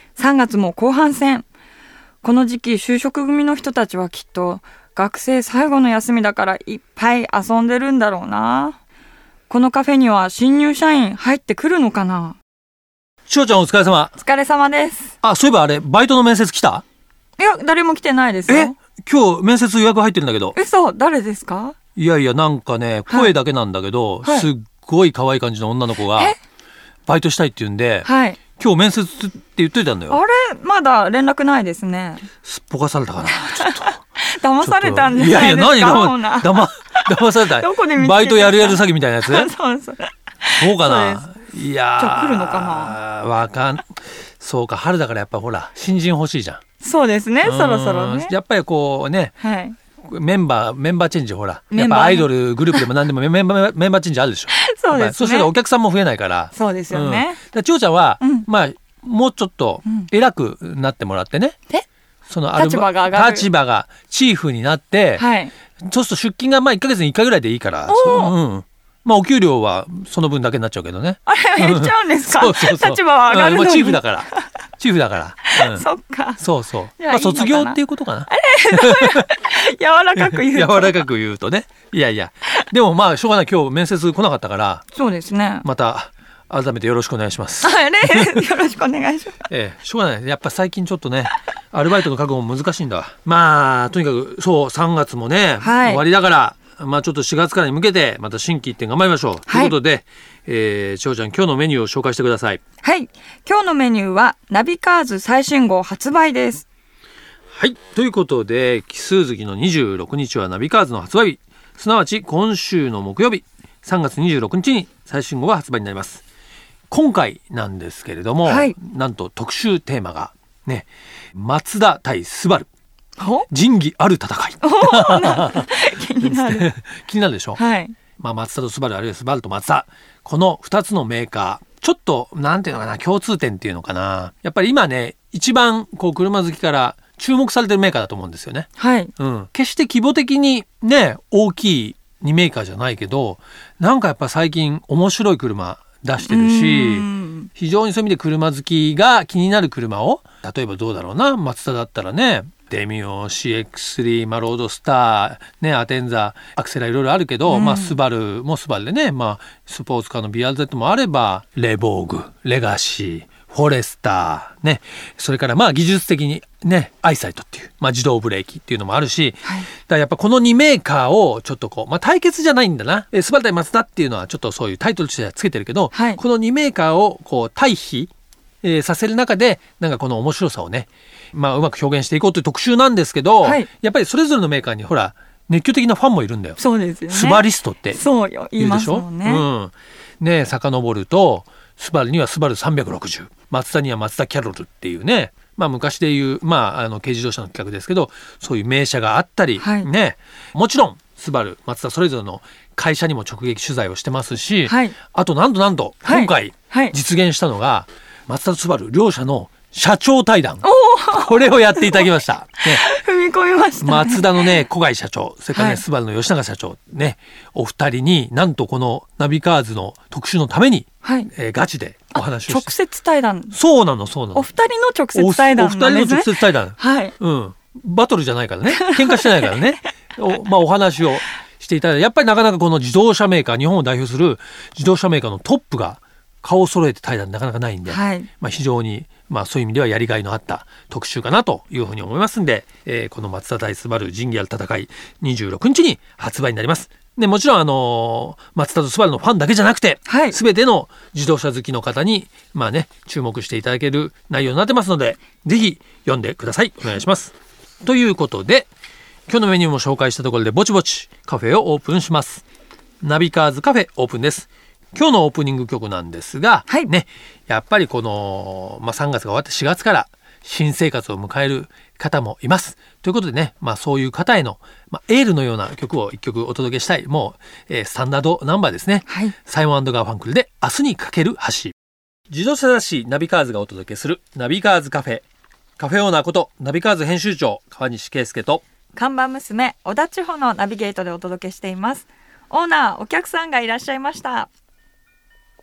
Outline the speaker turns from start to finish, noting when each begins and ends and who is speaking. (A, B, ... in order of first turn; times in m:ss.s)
0:00.2-0:01.5 A
0:02.2-0:08.8 A
0:09.5-0:12.4 A
0:13.3-0:14.2 B
0:14.2-0:15.1 A
0:15.2-0:16.8 B
0:17.4-0:18.8 A
0:18.5-0:20.6 B
0:20.6-0:21.8 A
0:22.0-0:26.4 B
0:27.1-0:30.2 B
0:28.0-0:28.4 A
0:30.1-0:32.2 A
0:32.4-0:34.0 B
0:33.4-0:41.2 A
0:34.6-0:39.5 B
0:40.6-0:46.6 B
0:42.0-0:43.0 A
0:46.8-0:48.3 A
0:47.4-0:49.4 B
0:49.4-0:49.8 A
0:50.0-1:01.6 B
0:51.7-0:52.9 A
0:54.5-0:55.5 A
0:56.6-0:57.4 A
0:58.2-0:58.5 A
1:02.3-1:05.3 B
1:02.6-1:03.5 A
1:05.2-1:05.5 A
1:05.8-1:15.9 B
1:07.9-1:08.4 A
1:11.3-1:14.5 A
1:15.4-1:16.4 A
1:16.4-1:19.2 B
1:17.0-1:21.0 A
1:20.2-1:24.9 B
1:24.9-1:25.7 A
1:25.6-1:28.5 B
1:27.6-1:29.4 A
1:29.5-1:42.6 B
1:35.6-1:36.0 A
1:39.5-1:39.8 A
1:42.8-1:46.6 A
1:47.5-1:56.2 B
1:56.9-2:02.7 B
1:58.4-1:58.7 A
2:03.2-2:03.5 A
2:03.5-2:07.6 B
2:04.6-2:06.7 A
2:07.6-2:08.0 A
2:08.2-2:58.1 B
2:18.8-2:19.1 A
2:26.2-2:27.5 A
2:37.5-2:38.0 A
2:55.9-2:56.2 A
2:58.6-3:08.0 B
3:03.4-3:03.7 A
3:06.6-3:09.4 A
3:08.6-3:32.9 B
3:19.6-3:19.9 A
3:24.7-3:25.0 A
3:26.0-3:27.0 A
3:30.6-3:34.6 A
3:33.8-3:42.8 B
3:35.5-3:35.8 A
3:41.0-3:41.3 A
3:42.1-3:43.6 A
3:43.5-3:44.5 B
3:44.3-3:47.1 A
3:45.1-4:18.7 B
3:48.7-3:49.5 A
3:57.9-3:58.3 A
4:10.1-4:10.4 A
4:19.3-4:22.4 B
4:23.0-4:41.7 B
4:39.1-4:39.4 A
4:42.3-4:45.2 B
4:45.8-4:48.6 B
4:48.9-4:54.5 A